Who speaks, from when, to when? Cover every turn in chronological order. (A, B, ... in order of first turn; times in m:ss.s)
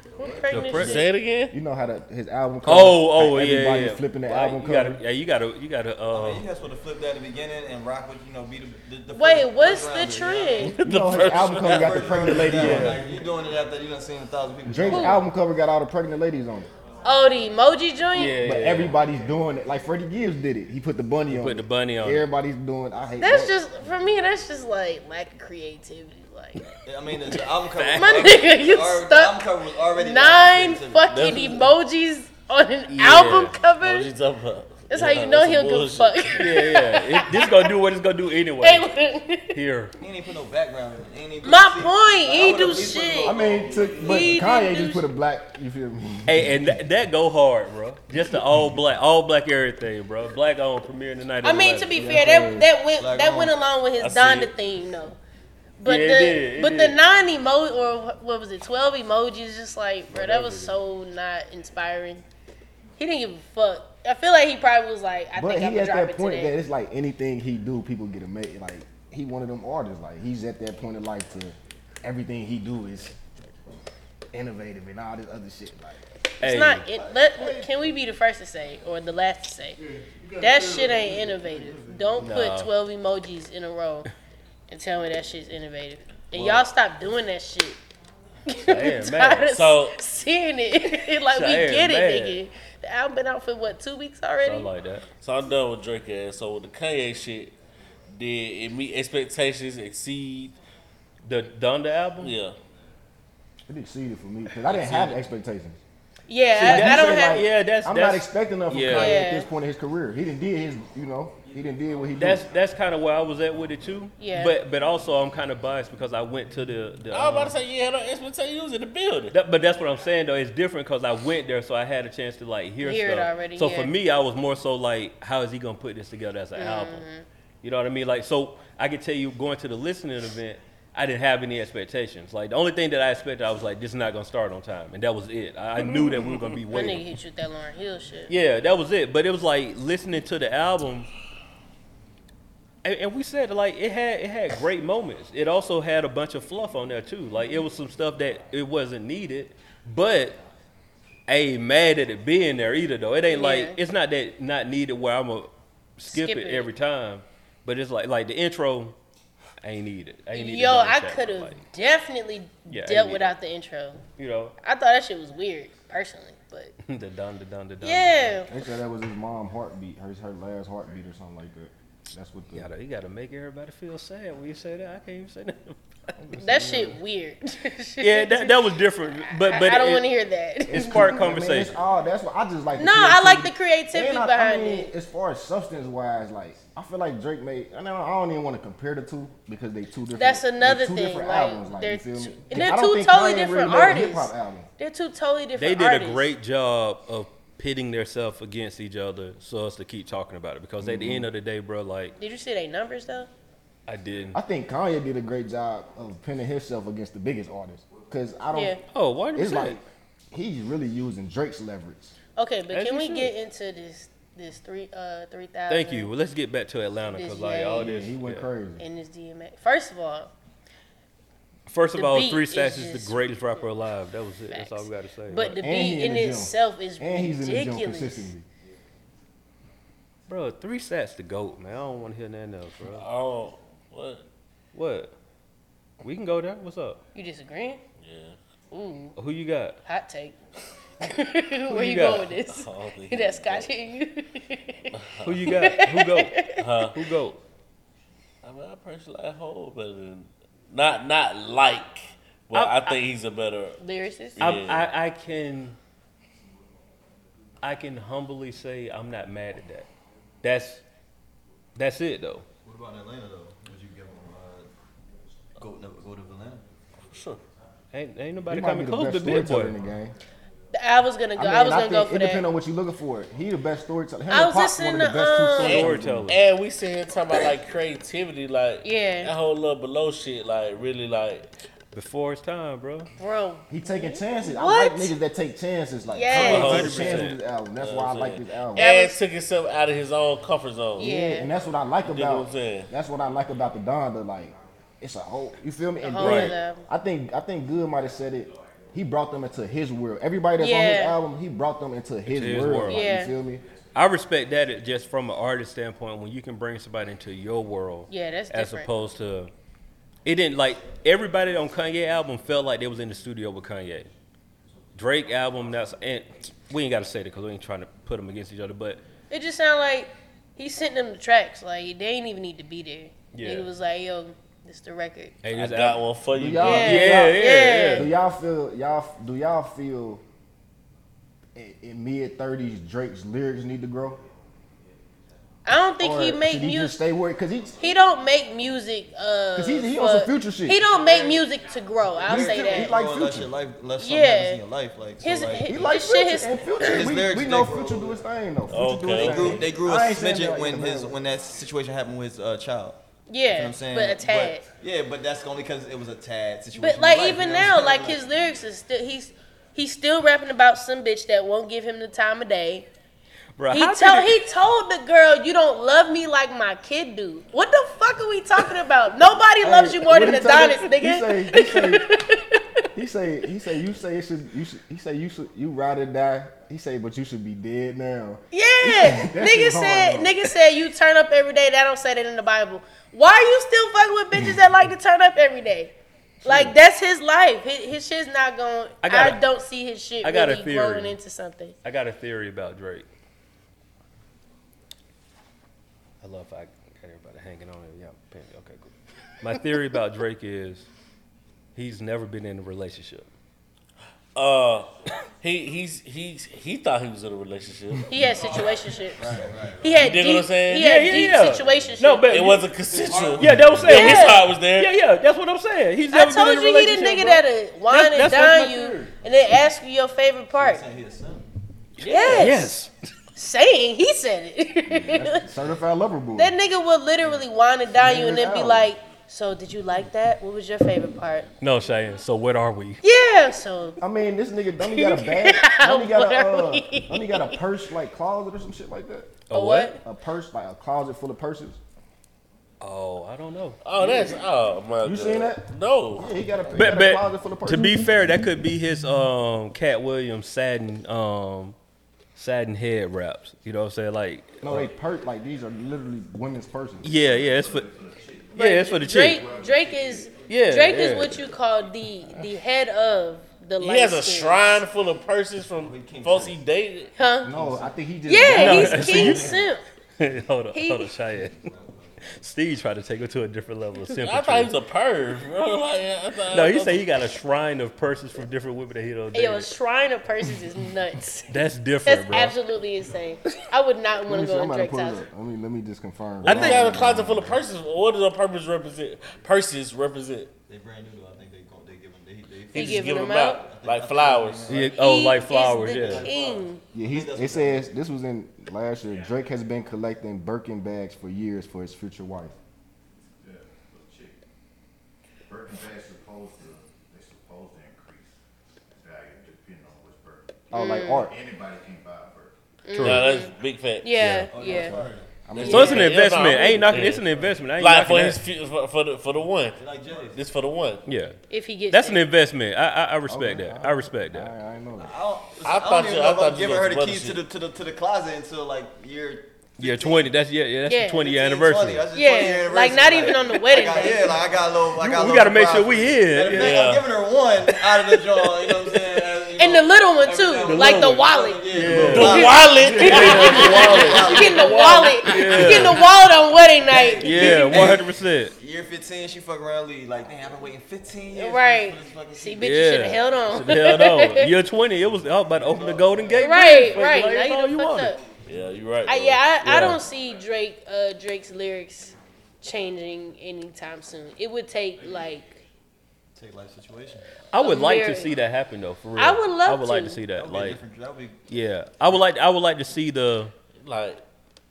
0:00.2-0:00.7 A
0:00.2-0:01.1 B
0:00.5-0:01.0 C
0:00.7-0:01.5 D
0:01.5-0:05.0 E
0:02.6-0:06.4 C
0:06.1-0:15.2 A
0:09.1-0:10.8 B
0:10.8-0:13.0 E
0:10.8-0:12.8 D
0:12.5-0:13.0 C
0:14.6-0:16.7 E
0:14.9-0:15.2 B
0:17.0-0:18.4 B
0:18.1-0:19.0 C
0:18.4-0:23.5 E
0:21.3-0:22.3 C
0:23.2-0:26.8 B
0:26.8-0:31.3 A
0:27.7-0:28.4 C
0:27.9-0:29.4 B
0:29.9-0:34.1 B
0:31.1-0:31.7 D
0:32.9-0:33.6 C
0:33.0-0:36.6 D
0:34.9-0:37.7 B
0:36.4-0:38.8 C
0:38.6-0:39.6 B
0:39.5-0:39.9 C
0:40.0-0:44.2 A
0:41.4-0:45.1 B
0:43.2-0:46.6 E
0:46.3-0:52.0 C
0:51.4-0:55.2 B
0:51.9-0:52.7 E
0:52.9-0:53.6 A
0:54.0-0:54.5 D
0:55.8-1:02.2 B
0:55.8-0:57.0 C
1:00.1-1:00.7 C
1:03.0-1:06.5 B
1:05.4-1:13.1 E
1:14.3-1:16.0 E
1:16.4-1:19.8 B
1:16.4-1:16.8 C
1:17.2-1:17.7 E
1:20.0-1:21.9 E
1:20.4-1:24.1 B
1:22.2-1:22.7 C
1:24.7-1:27.8 B
1:26.3-1:26.7 A
1:28.5-1:34.7 B
1:28.6-1:29.5 C
1:29.5-1:30.0 D
1:31.3-1:32.4 C
1:34.4-1:35.0 C
1:35.2-1:37.5 D
1:38.1-1:40.5 D
1:41.2-1:42.3 C
1:42.2-1:42.6 D
1:43.7-1:45.8 E
1:44.7-1:45.1 D
1:46.3-1:47.4 B
1:46.6-1:49.2 C
1:46.6-1:52.5 E
1:48.9-1:49.5 B
1:52.2-1:57.5 C
1:54.2-1:54.6 B
1:57.1-1:59.3 D
1:59.3-2:07.1 C
2:02.8-2:03.9 B
2:06.6-2:07.2 B
2:07.6-2:17.0 C
2:16.7-2:18.3 B
2:18.3-2:21.1 C
2:22.8-2:30.4 C
2:31.3-2:39.0 C
2:33.3-2:33.8 B
2:36.1-2:36.7 B
2:39.6-2:41.6 C
2:40.3-2:44.0 B
2:42.7-2:43.3 C
2:44.2-2:44.5 C
2:44.6-2:46.7 B
2:46.8-2:48.4 C
2:47.8-2:48.5 B
2:48.5-2:52.7 E
2:52.5-2:56.8 C
2:56.2-2:56.9 E
2:56.4-3:01.1 B
2:58.0-3:00.0 C
3:00.7-3:14.7 E
3:00.7-3:01.8 C
3:02.7-3:04.9 B
3:10.1-3:16.3 B
3:15.6-3:22.1 C
3:20.8-3:21.3 E
3:22.2-3:23.3 B
3:23.9-3:24.4 C
3:24.3-3:28.8 E
3:28.5-3:28.8 B
3:28.9-3:29.8 C
3:29.3-3:32.1 E
3:32.4-3:36.1 B
3:32.7-3:33.3 C
3:35.7-3:38.5 C
3:37.1-3:38.0 B
3:37.7-3:38.8 E
3:38.8-3:40.3 B
3:41.7-3:45.6 C
3:41.9-3:43.7 B
3:44.5-3:48.3 B
3:45.6-3:48.4 E
3:50.3-3:53.0 C
3:52.9-3:54.2 D
3:54.7-3:55.1 C
3:56.0-3:57.0 C
3:57.1-3:57.8 B
3:58.0-3:58.4 D
3:58.7-3:59.1 B
3:59.2-3:59.8 C
3:59.8-4:00.3 B
4:01.0-4:06.6 B
4:01.7-4:02.3 C
4:02.5-4:03.7 D
4:04.9-4:05.5 D
4:05.2-4:06.4 C
4:06.6-4:07.0 D
4:06.9-4:07.4 C
4:08.4-4:13.8 D
4:12.5-4:12.9 C
4:13.8-4:14.4 B
4:14.4-4:14.9 D
4:14.4-4:15.8 C
4:17.6-4:19.9 C
4:20.4-4:20.8 C
4:21.8-4:22.4 C
4:22.6-4:24.7 A
4:25.6-4:26.6 A
4:27.1-4:27.4 D
4:27.9-4:29.7 C
4:28.5-4:30.1 E
4:30.7-4:32.4 B
4:31.4-4:36.4 E
4:34.3-4:35.9 B
4:35.6-4:41.5 D
4:35.6-4:36.4 C
4:38.8-4:39.3 B
4:41.9-4:43.1 C
4:43.2-4:45.1 B
4:43.7-4:48.8 E
4:46.1-4:46.9 B
4:46.3-4:47.4 C
4:46.3-4:51.1 D
4:48.8-4:49.2 B
4:51.0-5:03.6 E
4:51.0-4:51.5 B
4:52.0-4:52.9 D
4:56.0-4:56.8 B
4:56.2-4:56.5 C
5:00.6-5:01.2 B
5:02.3-5:03.1 C
5:02.9-5:03.3 B
5:03.9-5:09.5 C
5:08.1-5:08.9 B
5:10.2-5:14.1 C
5:15.0-5:19.0 C
5:19.3-5:25.4 B
5:23.3-5:23.7 C
5:25.4-5:26.0 C
5:25.5-5:26.9 D
5:26.3-5:30.2 E
5:26.6-5:28.1 B
5:26.6-5:28.1 C
5:31.6-5:34.2 E
5:35.6-5:37.0 B
5:36.0-5:37.8 E
5:37.8-5:43.0 B
5:39.5-5:40.8 E
5:42.2-5:43.5 E
5:42.3-5:45.9 A
5:44.0-5:44.6 B
5:45.2-5:46.8 B
5:45.6-5:51.2 E
5:46.8-5:47.0 D
5:46.8-5:48.2 A
5:48.7-5:49.6 D
5:49.2-5:58.4 A
5:53.3-5:54.6 B
5:56.8-6:02.9 B
6:03.6-6:04.4 C
6:03.7-6:12.8 B
6:09.6-6:12.1 E
6:12.9-6:20.5 E
6:18.5-6:25.9 B
6:26.4-6:26.7 C
6:26.4-6:31.7 B
6:29.0-6:29.4 C
6:30.2-6:31.2 C
6:31.8-6:33.0 C
6:36.2-6:38.9 C
6:39.4-6:40.9 C
6:41.8-6:43.3 C
6:44.3-6:44.9 D
6:45.4-6:48.1 D
6:48.1-6:52.3 B
6:49.2-6:49.9 A
6:49.9-6:51.5 D
6:50.8-6:52.7 C
6:52.3-6:54.9 D
6:53.4-6:59.1 C
6:53.8-6:54.5 B
6:56.1-7:00.8 B
7:00.5-7:01.4 A
7:02.0-7:02.8 B
7:02.0-7:02.9 C
7:02.0-7:02.5 D
7:03.4-7:05.4 B
7:04.9-7:06.5 E
7:06.3-7:11.5 B
7:08.0-7:08.9 E
7:11.6-7:13.0 C
7:13.0-7:14.0 B
7:14.0-7:19.4 E
7:14.8-7:17.6 B
7:19.5-7:19.9 C
7:19.5-7:20.0 B
7:20.0-7:21.8 E
7:22.8-7:23.8 C
7:23.8-7:26.3 D
7:24.0-7:24.4 E
7:25.0-7:28.3 E
7:26.7-7:31.8 C
7:32.4-7:34.9 C
7:34.6-7:37.1 E
7:37.0-7:37.9 C
7:37.0-7:38.6 F
7:38.5-7:39.4 C
7:38.5-7:44.8 B
7:39.3-7:40.3 F
7:40.5-7:41.4 C
7:43.8-7:47.1 D
7:45.8-7:46.6 A
7:47.2-7:47.5 B
7:47.4-7:49.6 E
7:48.2-7:49.8 B
7:48.5-7:49.5 C
7:50.2-7:51.7 C
7:50.7-7:51.1 B
7:51.6-7:52.2 A
7:52.3-7:54.7 C
7:54.2-7:57.2 D
7:56.5-7:59.7 C
7:59.3-8:05.3 B
8:01.5-8:02.6 C
8:04.2-8:07.6 E
8:06.4-8:07.0 C
8:06.4-8:10.5 D
8:10.7-8:17.9 A
8:12.7-8:13.6 B
8:12.7-8:14.7 D
8:14.7-8:16.3 C
8:14.7-8:16.8 B
8:16.9-8:22.5 E
8:23.4-8:24.4 F
8:25.5-8:28.3 F
8:29.0-8:32.6 F
8:30.7-8:31.3 E
8:30.7-8:31.3 B
8:32.9-8:36.1 B
8:33.0-8:33.3 C
8:33.0-8:34.1 D
8:34.2-8:34.5 C
8:34.5-8:35.3 A
8:34.6-8:34.9 E
8:35.4-8:36.2 E
8:35.5-8:41.0 D
8:35.6-8:38.4 C
8:39.7-8:40.4 A
8:40.0-8:40.3 F
8:41.0-8:41.4 C
8:41.5-8:42.3 B
8:41.9-8:44.5 C
8:43.3-8:45.1 E
8:45.0-8:50.3 A
8:45.6-8:47.4 D
8:49.8-8:52.0 C
8:50.9-8:51.3 B
8:51.1-9:05.2 A
8:52.1-8:54.4 B
8:55.0-8:56.8 C
8:56.5-8:57.0 D
8:57.9-8:58.2 C
8:59.6-9:07.9 B
9:00.6-9:02.4 C
9:02.1-9:04.3 D
9:03.0-9:06.0 C
9:06.8-9:13.1 A
9:07.2-9:08.5 C
9:11.3-9:14.5 B
9:12.6-9:18.1 C
9:15.6-9:16.3 A
9:16.3-9:18.2 B
9:18.4-9:19.4 D
9:19.0-9:25.6 B
9:19.6-9:20.0 C
9:26.3-9:27.3 A
9:27.5-9:30.8 C
9:27.6-9:28.4 B
9:29.2-9:30.2 B
9:30.3-9:31.5 A
9:31.5-9:33.5 C
9:33.8-9:34.2 D